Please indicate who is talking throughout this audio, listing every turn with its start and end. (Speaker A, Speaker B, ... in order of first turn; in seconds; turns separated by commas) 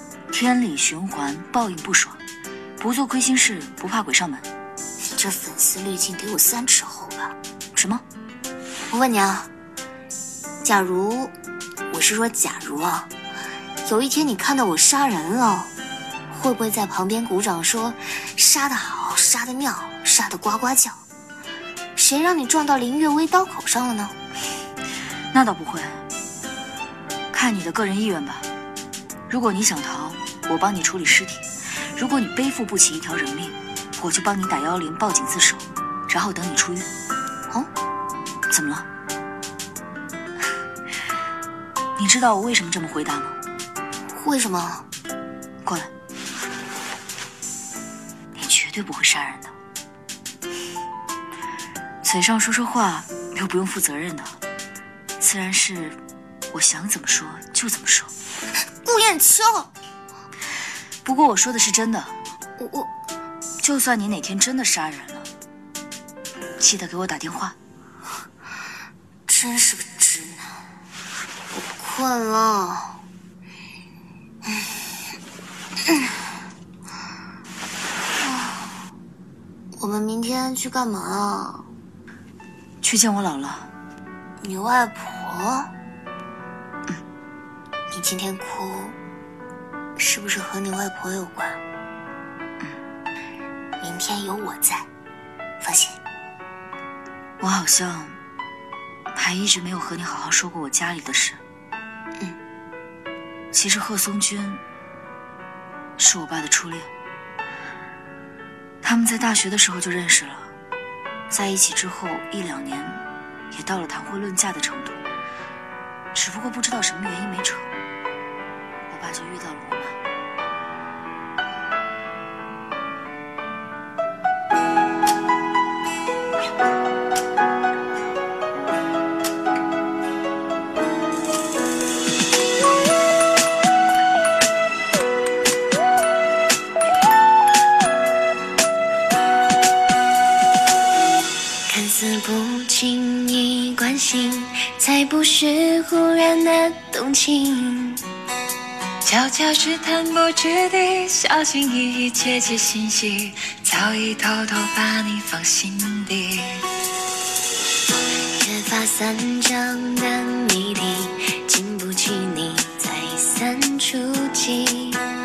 Speaker A: 0.3-2.2, Speaker A: 2.8-4.5, Speaker B: 5.2-7.3, Speaker A: 7.7-8.0, Speaker B: 8.9-9.5, Speaker B: 10.6-11.3, Speaker B: 11.9-13.1, Speaker B: 13.8-15.7, Speaker B: 16.3-21.0, Speaker B: 21.9-24.1, Speaker A: 25.3-26.0, Speaker A: 27.3-28.5, Speaker A: 29.3-36.9, Speaker A: 38.5-38.9, Speaker A: 42.0-43.4, Speaker B: 44.1-44.9, Speaker A: 45.6-45.9, Speaker A: 48.3-49.5, Speaker A: 52.0-54.4, Speaker A: 55.2-56.0, Speaker A: 56.5-58.1, Speaker B: 58.8-59.7, Speaker A: 61.0-62.2, Speaker B: 62.6-62.9, Speaker A: 63.6-65.3, Speaker A: 66.6-67.5, Speaker B: 69.3-70.6, Speaker B: 71.5-73.0, Speaker B: 74.4-74.9, Speaker B: 75.8-76.1, Speaker B: 78.2-78.7, Speaker B: 79.8-81.7, Speaker A: 82.8-83.7, Speaker B: 84.4-85.7, Speaker B: 87.9-89.0, Speaker B: 90.0-91.6, Speaker B: 93.8-94.9, Speaker B: 95.6-96.0, Speaker A: 97.4-98.2, Speaker A: 99.1-101.4, Speaker A: 103.5-104.6, Speaker A: 106.0-106.9, Speaker A: 108.8-110.5, Speaker A: 111.3-115.0, Speaker A: 116.1-117.7, Speaker A: 118.9-120.0, Speaker B: 141.7-148.0, Speaker C: 149.0-156.6, Speaker B: 158.3-165.0